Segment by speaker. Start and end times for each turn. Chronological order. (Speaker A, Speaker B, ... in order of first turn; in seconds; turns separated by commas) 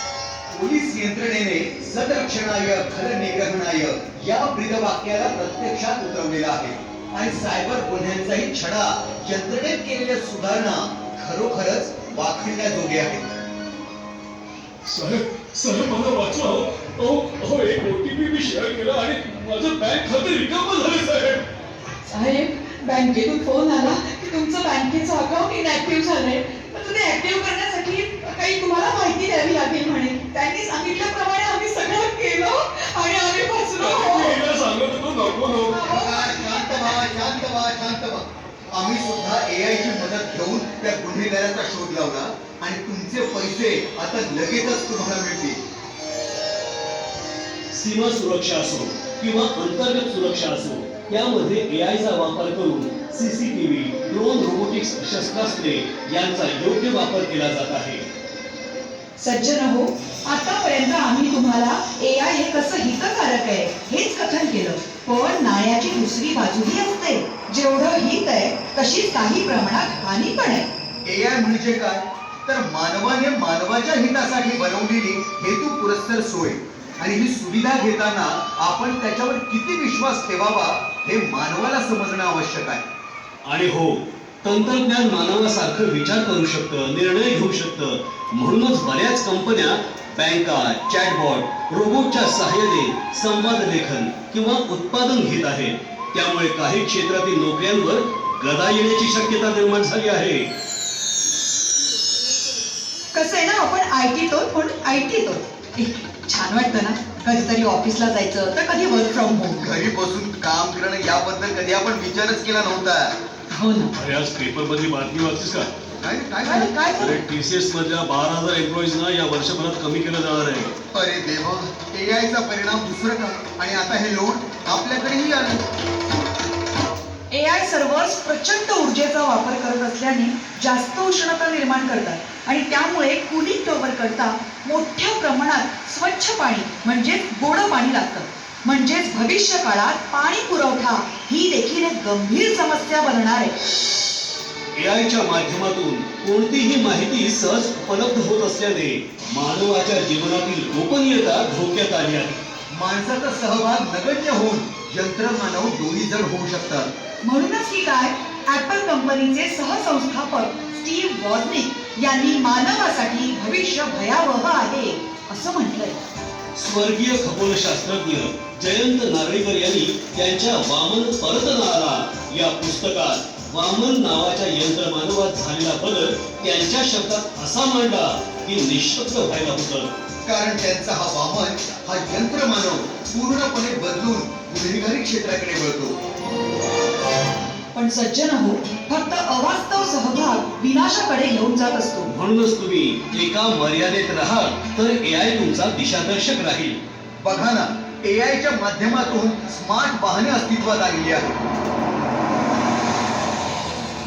Speaker A: 0.5-13.4, Speaker B: 14.8-21.4, Speaker C: 22.0-34.4, Speaker B: 33.8-35.8, Speaker C: 35.7-36.7, Speaker A: 35.9-45.6, Speaker B: 47.7-58.0, Speaker C: 59.2-70.7, Speaker A: 71.0-82.8, Speaker B: 83.5-100.5, Speaker C: 103.1-109.7, Speaker A: 109.6-113.1, Speaker C: 113.5-113.9, Speaker B: 113.9-115.7, Speaker A: 116.0-116.8, Speaker C: 116.4-117.2, Speaker B: 117.0-120.8, Speaker A: 120.9-125.6, Speaker C: 127.3-143.6, Speaker B: 144.7-152.4, Speaker A: 152.7-156.9, Speaker C: 157.2-166.0, Speaker B: 166.5-179.9, Speaker A: 180.2-185.9, Speaker C: 187.7-192.1, Speaker B: 192.1-196.8, Speaker A: 197.2-201.5